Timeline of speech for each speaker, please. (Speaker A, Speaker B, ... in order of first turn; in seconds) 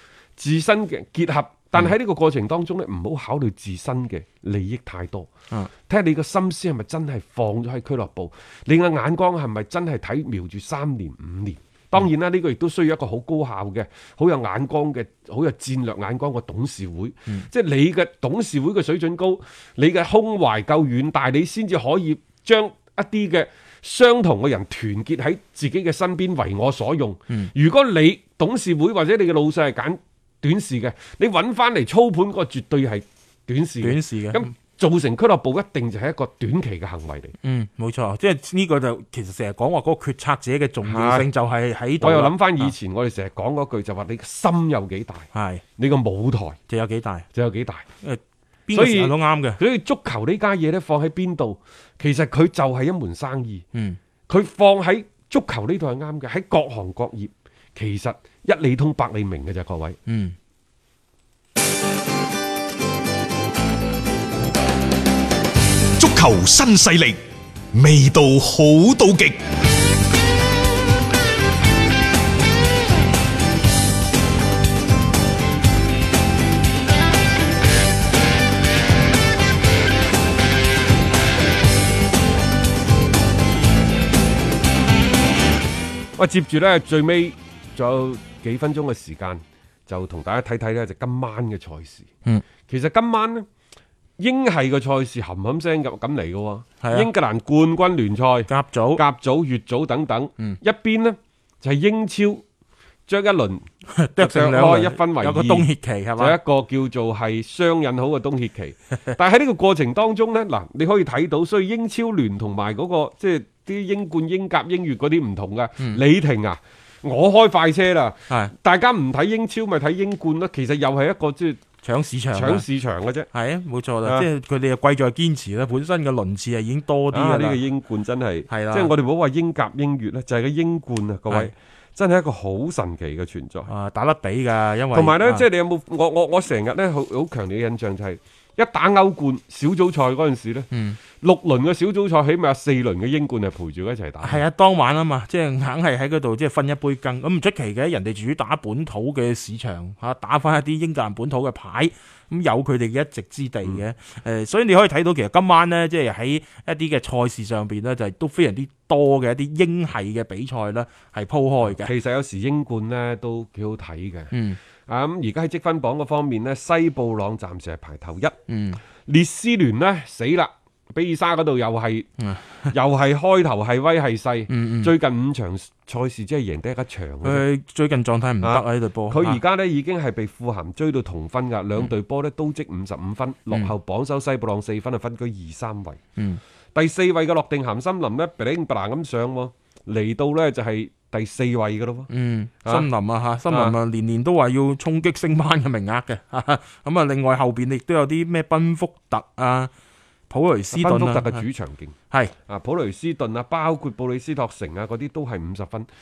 Speaker A: 0.4-5.3, 5.9-37.3, 40.8-41.3, 42.0-46.6, 47.3-47.9, 48.7-53.6, 54.3-60.0, 86.2-92.1, 92.7-93.5, 94.2-102.4, 103.1-103.7, 104.2-105.7, 106.2-121.6, 122.3-123.3, 127.1-133.7, 134.9-144.4, 161.6-168.3, 169.1-172.1, 172.7-177.4, 178.4-186.0, 186.7-192.1, 192.6-192.9, 193.5-193.7, 200.7-201.9, 202.4-205.9
Speaker B: 33.8-34.5, 37.4-42.7, 45.3-45.6, 46.7-47.2, 48.0-49.6, 53.7-54.0, 60.1-60.4, 96.8-97.1, 98.5-99.0, 103.9-106.4, 121.8-122.6, 123.3-127.6, 128.5-128.9, 133.7-135.4, 140.7-141.0, 144.2-161.9, 164.3-164.6, 168.5-168.8, 172.2-172.7, 174.5-174.9, 177.2-179.4, 192.1-199.7, 200.3-201.4
Speaker C: 66.0-67.2, 67.7-69.4